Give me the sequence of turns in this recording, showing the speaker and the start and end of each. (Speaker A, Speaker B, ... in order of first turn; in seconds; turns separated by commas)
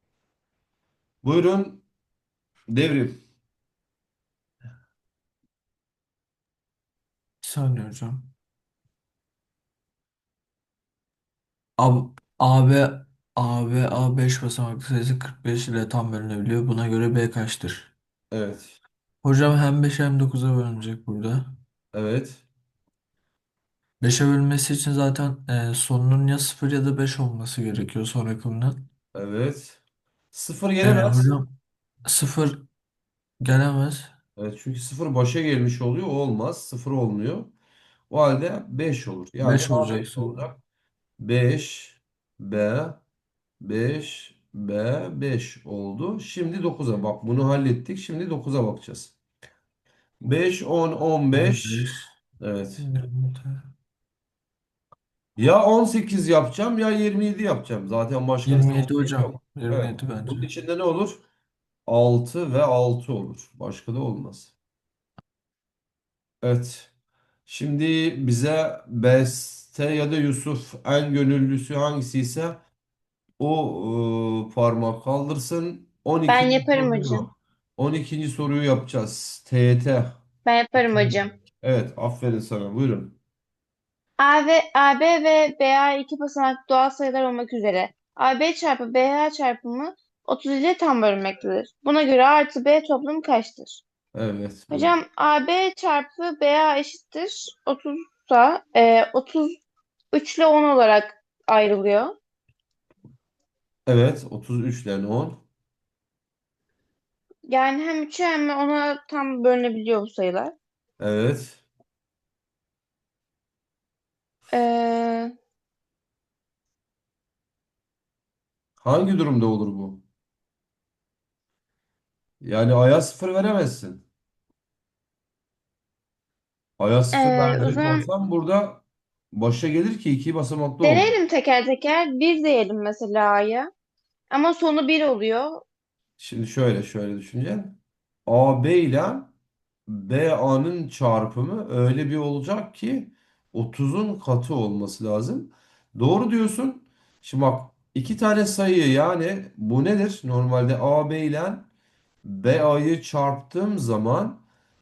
Speaker A: 1.2-1.8, Speaker A: 2.7-3.2, Speaker B: 7.4-8.3, Speaker B: 11.8-17.9, Speaker A: 18.3-18.8, Speaker B: 19.2-21.6, Speaker A: 21.9-22.4, Speaker B: 24.0-28.9, Speaker A: 29.1-29.8, Speaker A: 30.3-31.4, Speaker B: 30.8-31.5, Speaker B: 32.0-32.7, Speaker B: 33.4-34.1, Speaker A: 34.4-37.5, Speaker A: 38.1-40.6, Speaker B: 39.4-40.4, Speaker A: 41.2-43.0, Speaker A: 43.6-49.1, Speaker A: 50.2-52.8, Speaker B: 51.3-52.0, Speaker B: 52.8-53.7, Speaker A: 55.4-61.2, Speaker B: 58.5-60.5, Speaker A: 61.9-64.5, Speaker A: 66.4-66.9, Speaker A: 67.5-72.6, Speaker A: 73.4-80.2, Speaker C: 76.3-77.3, Speaker C: 80.5-81.3, Speaker A: 81.6-83.2, Speaker C: 84.2-93.8, Speaker A: 94.1-95.0, Speaker C: 94.7-99.6, Speaker C: 100.1-102.2, Speaker A: 103.9-105.4, Speaker C: 107.5-110.5, Speaker A: 111.0-111.6, Speaker C: 114.5-115.3, Speaker A: 118.8-120.0, Speaker A: 122.4-124.0, Speaker A: 126.8-131.1, Speaker C: 127.1-128.1, Speaker C: 130.8-133.7, Speaker C: 134.3-135.6, Speaker A: 136.2-139.3, Speaker A: 139.9-151.7, Speaker A: 152.2-154.4